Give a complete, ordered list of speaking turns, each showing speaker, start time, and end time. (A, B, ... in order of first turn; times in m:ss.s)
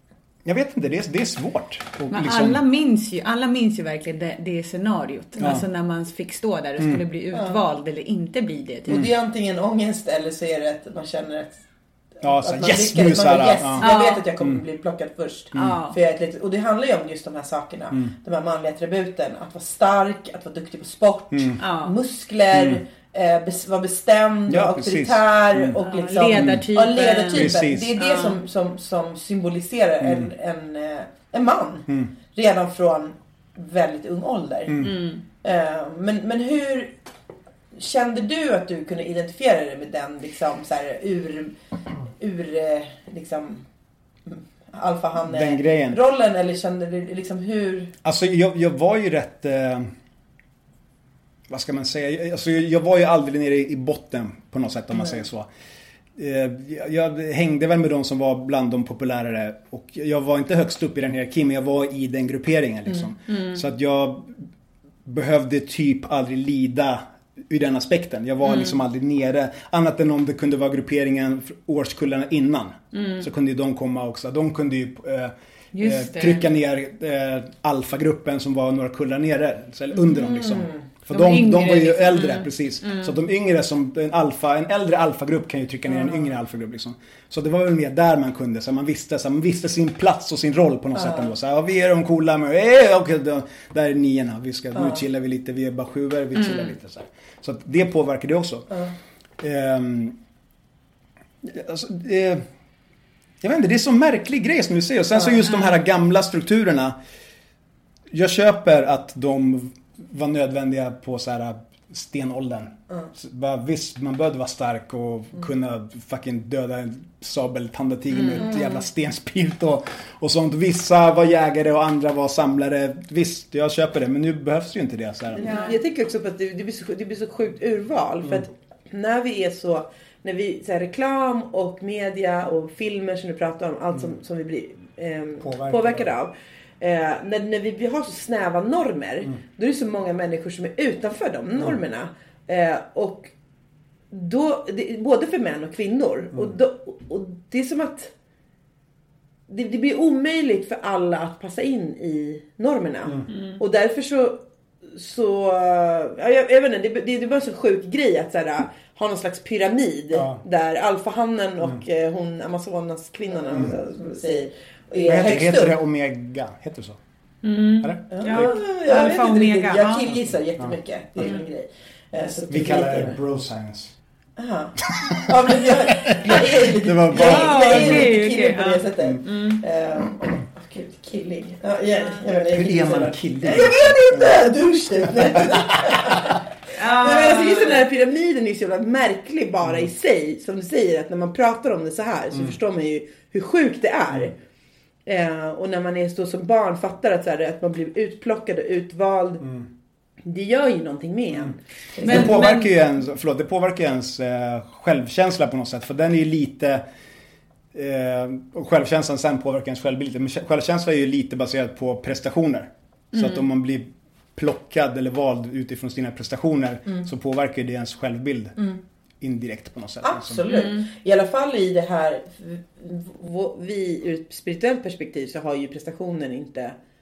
0:00.4-0:02.6 A
0:02.1-0:09.0 B
0:05.4-0:05.6 A
0:07.3-0:07.6 C
0:08.9-0:11.6 C
0:12.2-0:13.9 A
0:12.2-0:34.9 C
0:13.8-0:14.3 B
0:15.5-0:15.8 A
0:15.5-0:16.0 B
0:21.3-0:21.6 A
0:21.6-0:21.9 B
0:22.5-0:22.8 A
0:24.5-0:25.8 A
0:25.8-0:28.4 B
0:26.3-0:26.6 A
0:27.3-0:27.9 A
0:34.7-0:35.0 A
0:34.8-0:35.2 B
0:35.4-0:36.9 C
0:37.7-0:41.5 C
0:42.2-0:43.6 C
0:44.3-0:47.9 C
0:45.2-0:46.0 A
0:48.0-0:49.9 A
0:51.5-0:55.5 A
0:56.2-1:04.3 A
1:03.3-1:03.6 B
1:05.0-1:38.8 A
1:08.4-1:08.7 B
1:12.9-1:13.3 B
1:15.7-1:16.5 B
1:21.1-1:23.1 B
1:31.0-1:31.3 C
1:36.4-1:36.7 B
1:39.4-1:40.2 A
1:41.4-1:42.4 A
1:43.4-1:47.0 A
1:48.1-2:05.6 A
1:58.1-1:58.4 B
2:05.4-2:23.3 C
2:05.4-2:05.8 B
2:15.4-2:16.1 A
2:24.1-2:28.1 C
2:29.5-2:45.8 C
2:33.3-2:33.6 B
2:40.1-2:40.4 A
2:43.5-2:43.8 A
2:45.0-2:47.0 A
2:47.4-2:50.2 B
2:47.8-2:48.5 A
2:48.1-2:53.2 C
2:50.6-2:51.3 A
2:52.5-2:53.9 A
2:54.4-3:14.3 C
2:54.9-2:58.2 A
2:57.1-2:59.6 B
3:02.3-3:06.2 A
3:06.8-3:07.8 B
3:15.0-3:19.5 C
3:20.2-3:22.4 C
3:21.3-3:26.8 A
3:22.0-3:22.7 B
3:27.7-3:38.6 A
3:33.1-3:33.4 B
3:39.2-3:40.4 A
3:40.0-3:46.7 C
3:40.5-3:40.9 B